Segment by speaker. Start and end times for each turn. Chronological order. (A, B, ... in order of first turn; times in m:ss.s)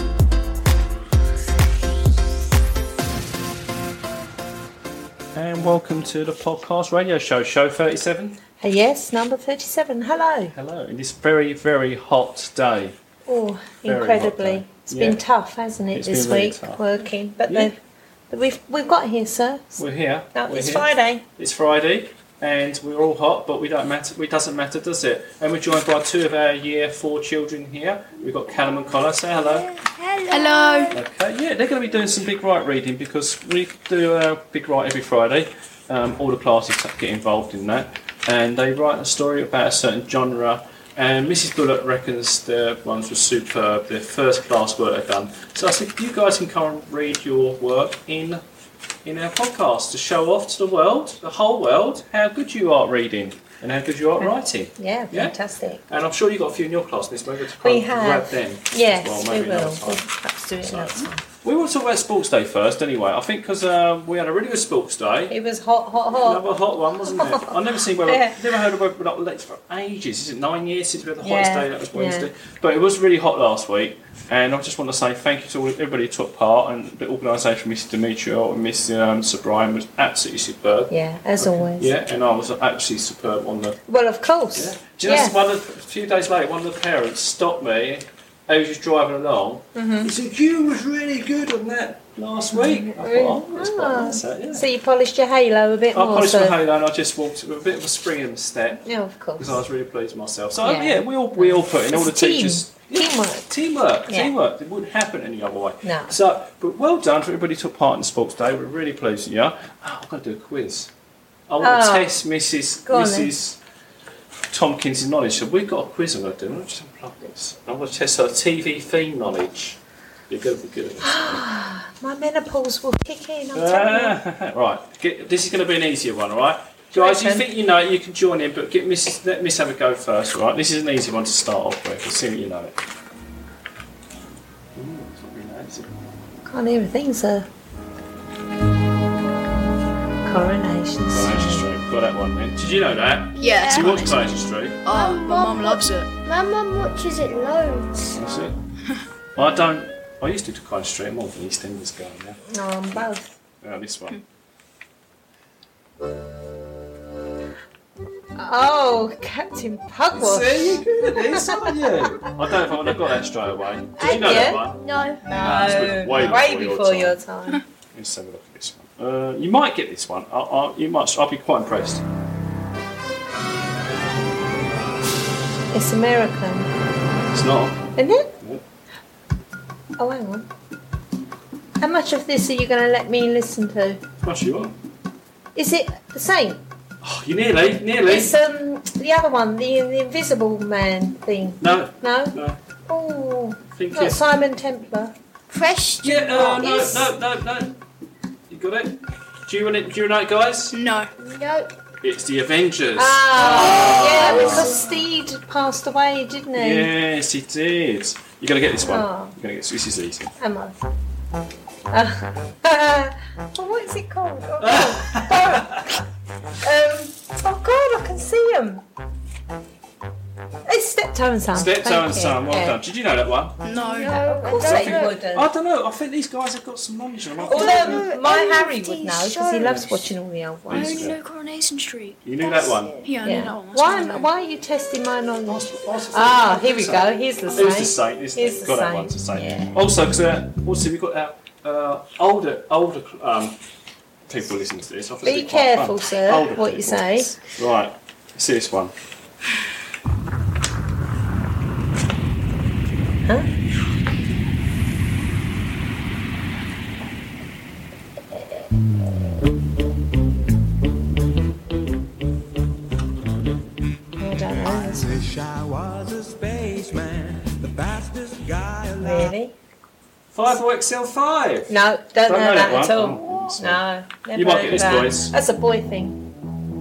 0:05.4-0:08.4 A
0:08.6-0:10.5 B
0:10.5-0:13.0 A
0:13.3-0:17.8 B
0:13.8-0:15.2 A
0:15.9-0:16.8 A
0:17.5-0:17.7 A
0:18.3-0:21.2 B
0:19.8-0:29.7 A
0:29.3-0:31.0 C
0:30.3-0:31.0 D
0:30.9-0:48.4 A
0:49.0-0:55.4 A
0:54.2-0:55.8 B
0:55.9-1:00.1 A
0:57.6-1:01.2 B
1:00.6-1:05.4 A
1:05.3-1:06.4 B
1:06.1-1:23.8 A
1:07.1-1:08.4 B
1:11.2-1:12.3 B
1:20.9-1:21.9 B
1:23.9-1:25.4 B
1:24.6-1:34.7 A
1:29.8-1:30.1 B
1:32.5-1:36.6 B
1:35.9-1:38.9 A
1:38.9-1:39.6 B
1:39.4-1:50.9 A
1:40.6-1:43.5 B
1:44.1-1:44.4 B
1:45.8-1:46.2 B
1:51.5-1:53.6 A
1:51.6-1:52.2 B
1:52.9-1:53.3 B
1:54.5-2:01.4 A
2:01.0-2:04.2 B
2:03.5-2:12.8 A
2:06.9-2:07.4 B
2:14.8-2:15.9 A
2:16.5-2:17.5 B
2:20.2-2:21.7 B
2:21.1-2:24.8 A
2:23.4-2:23.9 C
2:23.4-2:26.1 D
2:24.9-2:28.2 C
2:28.1-2:28.6 A
2:29.4-2:32.4 A
2:32.5-2:33.4 B
2:33.6-2:34.2 A
2:38.4-2:42.3 B
2:40.1-2:44.8 A
2:44.0-2:45.8 C
2:44.1-2:44.7 B
2:45.2-2:47.6 B
2:45.4-2:47.2 A
2:47.9-2:52.0 A
2:55.7-2:56.7 B
2:57.3-2:57.9 A
2:58.0-2:58.3 B
3:00.0-3:00.5 B
3:01.8-3:04.0 B
3:04.2-3:04.8 A
3:05.6-3:06.6 B
3:07.0-3:08.4 A
3:08.0-3:15.2 B
3:11.6-3:12.6 A
3:13.7-3:14.2 A
3:15.5-3:17.1 C
3:16.0-3:17.8 A
3:18.5-3:20.8 A
3:20.7-3:21.1 D
3:21.2-3:21.8 C
3:22.0-3:24.8 A
3:23.0-3:26.9 B
3:23.5-3:25.0 C
3:26.6-3:30.3 A
3:28.8-3:29.4 B
3:30.4-3:30.8 B
3:31.9-3:35.9 B
3:34.6-3:35.9 A
3:36.6-3:38.8 B
3:40.7-3:42.8 B
3:41.5-3:43.6 A
3:43.6-3:44.2 D
3:43.8-3:45.2 C
3:43.9-3:45.5 B
3:44.6-3:48.1 A
3:47.4-3:50.1 C
3:47.5-3:51.1 B
3:49.6-3:49.9 A
3:50.7-3:51.2 A
3:50.7-3:52.2 D
3:52.2-3:53.1 A
3:52.4-3:53.4 C
3:53.0-3:54.3 D
3:53.2-3:59.8 B
3:55.5-4:03.6 A
4:04.3-4:08.9 A
4:05.2-4:07.4 B
4:24.2-4:25.2 B
4:24.2-4:29.3 E
4:29.0-4:29.5 B
4:30.3-4:35.3 A
4:31.7-4:36.2 B